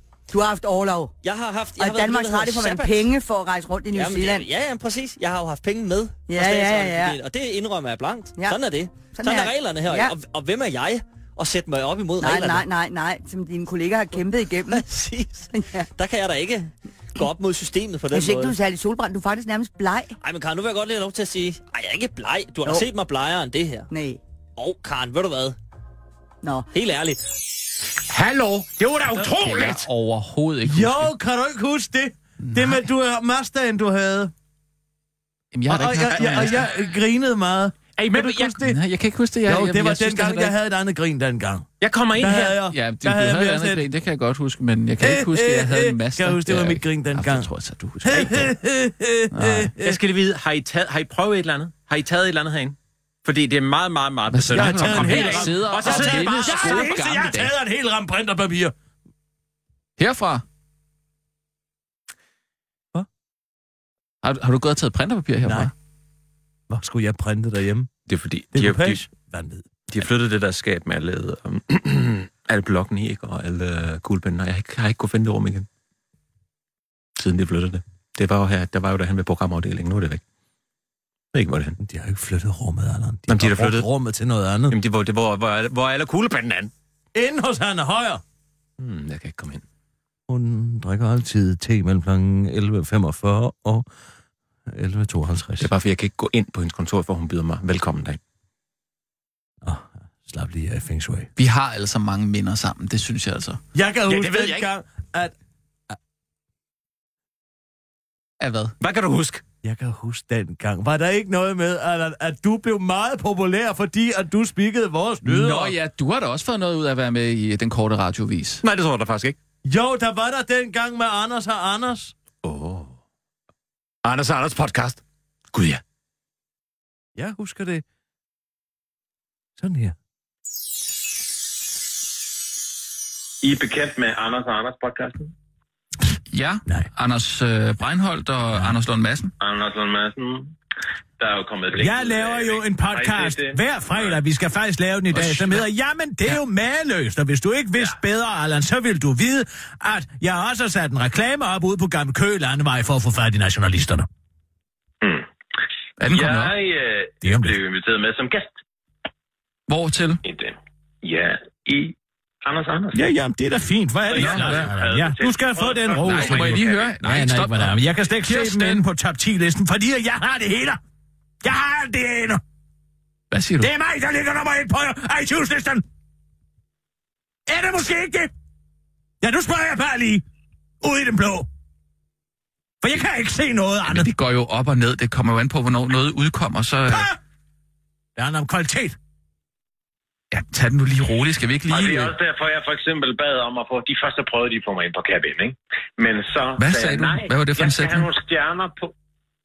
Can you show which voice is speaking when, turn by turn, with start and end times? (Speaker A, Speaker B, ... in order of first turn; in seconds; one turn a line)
Speaker A: 0.3-1.1
Speaker B: 1.2-3.0
Speaker A: 1.8-4.5
Speaker B: 3.9-12.7
Speaker A: 6.3-7.2
Speaker A: 8.3-10.1
Speaker A: 12.2-14.8
Speaker B: 14.7-18.6
Speaker A: 15.5-15.9
Speaker A: 18.1-20.2
Speaker B: 20.2-23.9
Speaker A: 23.9-24.2
Speaker B: 24.6-25.6
Speaker A: 26.4-26.7
Speaker B: 26.7-27.2
Speaker C: 28.0-29.9
Speaker D: 29.2-31.1
Speaker E: 30.6-34.3
Speaker D: 32.4-32.9
Speaker D: 35.5-36.7
Speaker E: 35.7-38.8
Speaker C: 38.0-38.6
Speaker D: 38.6-40.5
Speaker E: 39.5-41.7
Speaker C: 41.8-42.6
Speaker E: 42.2-43.8
Speaker D: 42.6-48.5
Speaker E: 45.0-47.5
Speaker E: 48.0-50.0
Speaker D: 49.3-49.7
Speaker C: 49.8-57.0
Speaker D: 54.3-57.5
Speaker E: 54.5-58.7
Speaker D: 60.0-60.4
Speaker D: 64.2-65.7
Speaker E: 65.4-65.7
Speaker E: 66.7-67.9
Speaker C: 68.1-69.0
Speaker E: 68.5-69.7
Speaker C: 69.9-75.7
Speaker C: 77.2-80.2
Speaker C: 81.3-81.8
Speaker E: 81.8-84.8
Speaker C: 83.3-83.9
Speaker C: 84.7-86.7
Speaker E: 87.2-88.2
Speaker C: 88.8-89.6
Speaker E: 90.3-93.8
Speaker E: 94.7-95.7
Speaker C: 95.6-98.2
Speaker E: 99.6-101.3
Speaker D: 101.4-103.6
Speaker E: 103.7-105.3
Speaker C: 104.1-104.8
Speaker D: 108.4-108.7
Speaker C: 108.8-109.4
Speaker E: 109.6-115.8
Speaker D: 115.2-118.6
Speaker C: 118.6-119.4
Speaker E: 119.7-122.1
Speaker C: 122.4-123.0
Speaker C: 124.0-125.0
Speaker C: 125.5-125.8
Speaker E: 127.2-127.8
Speaker E: 129.6-129.9
Speaker F: 133.4-135.3
Speaker D: 136.3-139.3
Speaker F: 139.4-140.5
Speaker F: 141.2-144.2
Speaker E: 141.8-154.1
Speaker D: 145.2-145.6
Speaker D: 156.0-156.6
Speaker F: 156.1-158.5
Speaker E: 157.2-157.6
Speaker D: 159.7-160.2
Speaker F: 160.2-163.0
Speaker E: 162.9-170.8
Speaker F: 164.1-166.9
Speaker D: 164.2-164.7
Speaker D: 166.0-168.8
Speaker E: 171.4-172.4
Speaker D: 173.3-173.7
Speaker E: 173.6-175.8
Speaker E: 177.5-178.3
Speaker E: 179.2-180.2
Speaker E: 180.8-181.5
Speaker E: 182.8-184.1
Speaker D: 183.9-187.1
Speaker E: 186.9-187.2
Speaker E: 188.2-189.0
Speaker D: 190.3-192.2
Speaker F: 191.7-198.9
Speaker D: 196.6-198.1